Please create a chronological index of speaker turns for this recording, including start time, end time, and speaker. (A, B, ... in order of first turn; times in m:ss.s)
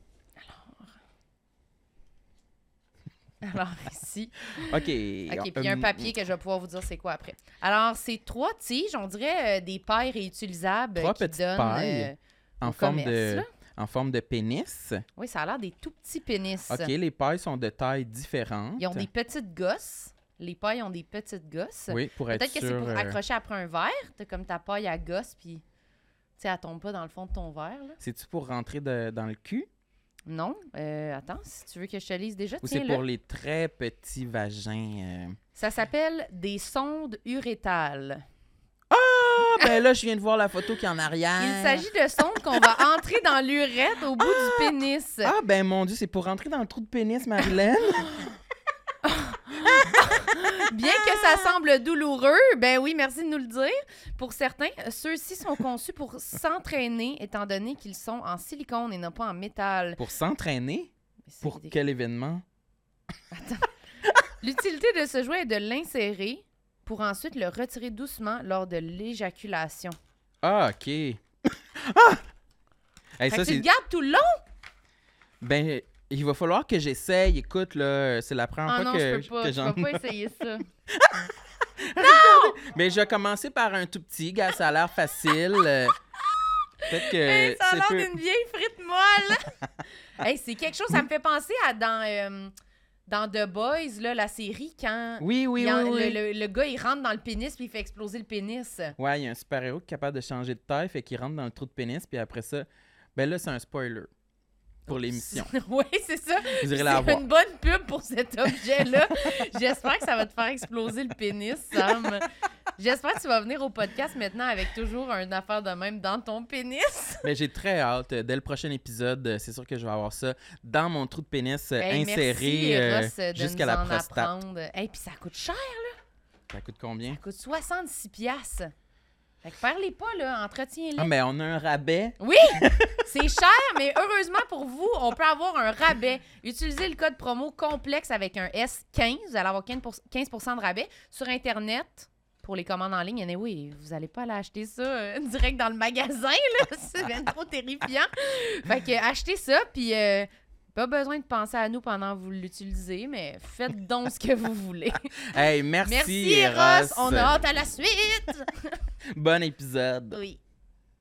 0:00.4-0:00.9 A
0:03.4-0:04.6 A
0:04.6-0:06.1 B
0:05.3-0:13.5 A
0:11.0-0:15.0 B
0:15.2-0:16.9 A
0:16.7-0:19.1 B
0:18.8-0:25.6 A
0:21.9-0:23.2 B
0:26.4-0:28.0 A
0:28.0-0:29.7 B
0:30.3-0:33.0 A
0:32.6-0:35.4 B
0:35.6-0:38.2 A
0:38.9-0:41.8 B
0:41.4-0:45.3 A
0:44.2-0:44.5 B
0:45.2-0:48.3 B
0:49.0-1:00.0 A
1:00.0-1:00.9 B
1:01.3-1:01.7 A
1:01.4-1:02.4 B
1:03.3-1:03.7 A
1:04.4-1:10.0 A
1:10.4-1:11.2 B
1:11.8-1:12.2 B
1:13.2-1:13.7 B
1:13.3-1:14.4 A
1:15.4-1:20.0 B
1:18.7-1:20.7 A
1:20.9-1:26.0 B
1:22.0-1:22.6 A
1:26.8-1:29.6 A
1:26.9-1:28.1 B
1:30.2-1:32.5 A
1:33.1-1:39.0 A
1:35.2-1:36.2 B
1:39.0-1:44.1 B
1:44.9-1:45.5 B
1:44.9-1:57.2 A
1:46.6-1:47.2 B
1:57.2-2:04.4 B
2:01.8-2:06.0 A
2:06.5-2:07.2 B
2:07.1-2:08.7 A
2:09.4-2:11.1 A
2:11.0-2:13.0 B
2:12.2-2:35.0 A
2:35.3-2:37.3 B
2:35.9-2:38.8 A
2:39.1-2:40.2 B
2:40.1-2:40.4 A